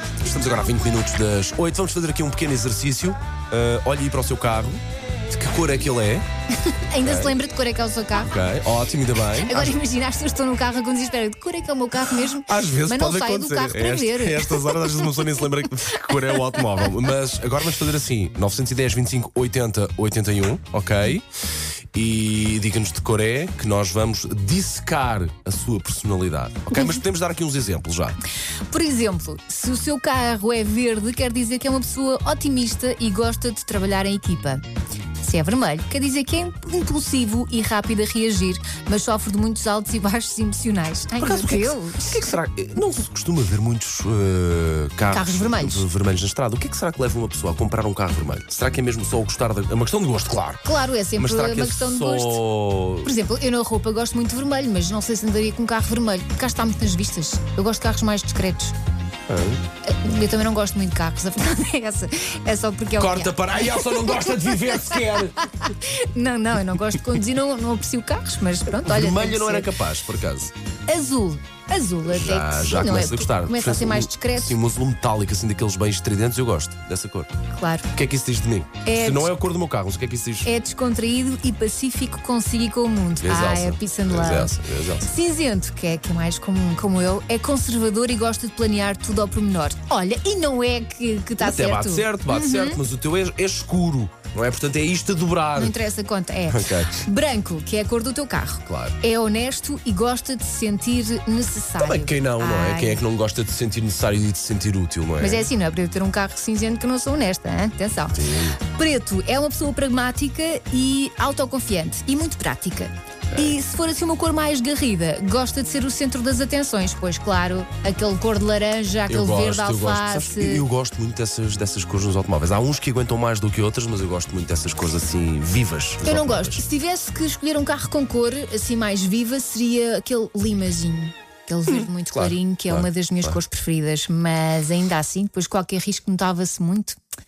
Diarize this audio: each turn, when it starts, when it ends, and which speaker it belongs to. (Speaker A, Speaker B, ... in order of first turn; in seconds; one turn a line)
Speaker A: 0.2-6.2
Speaker B: 6.6-8.3
Speaker A: 7.0-7.3
Speaker A: 8.2-9.8
Speaker B: 9.3-16.9
Speaker A: 12.0-21.3
Speaker A: 21.9-28.2
Speaker B: 26.7-27.0
Speaker B: 28.4-34.6
Speaker B: 35.2-42.2
Speaker A: 41.2-53.1
Speaker B: 45.1-45.9
Speaker B: 50.6-52.4
Speaker B: 53.0-58.7
Speaker A: 59.3-59.6
Speaker B: 59.8-69.7
Speaker A: 63.0-65.5
Speaker A: 68.8-70.5
Speaker B: 70.9-74.6
Speaker A: 72.1-77.3
Speaker B: 77.5-77.9
Speaker A: 77.9-80.5
Speaker B: 78.8-79.3
Speaker B: 80.4-92.8
Speaker A: 83.2-85.1
Speaker A: 91.4-95.8
Speaker B: 95.5-103.0
Speaker A: 96.5-97.1
Speaker A: 98.6-99.0
Speaker A: 101.8-105.5
Speaker B: 105.2-120.7
Speaker A: 108.1-108.6
Speaker A: 119.1-126.6
Speaker B: 126.0-137.0
Speaker A: 131.7-133.4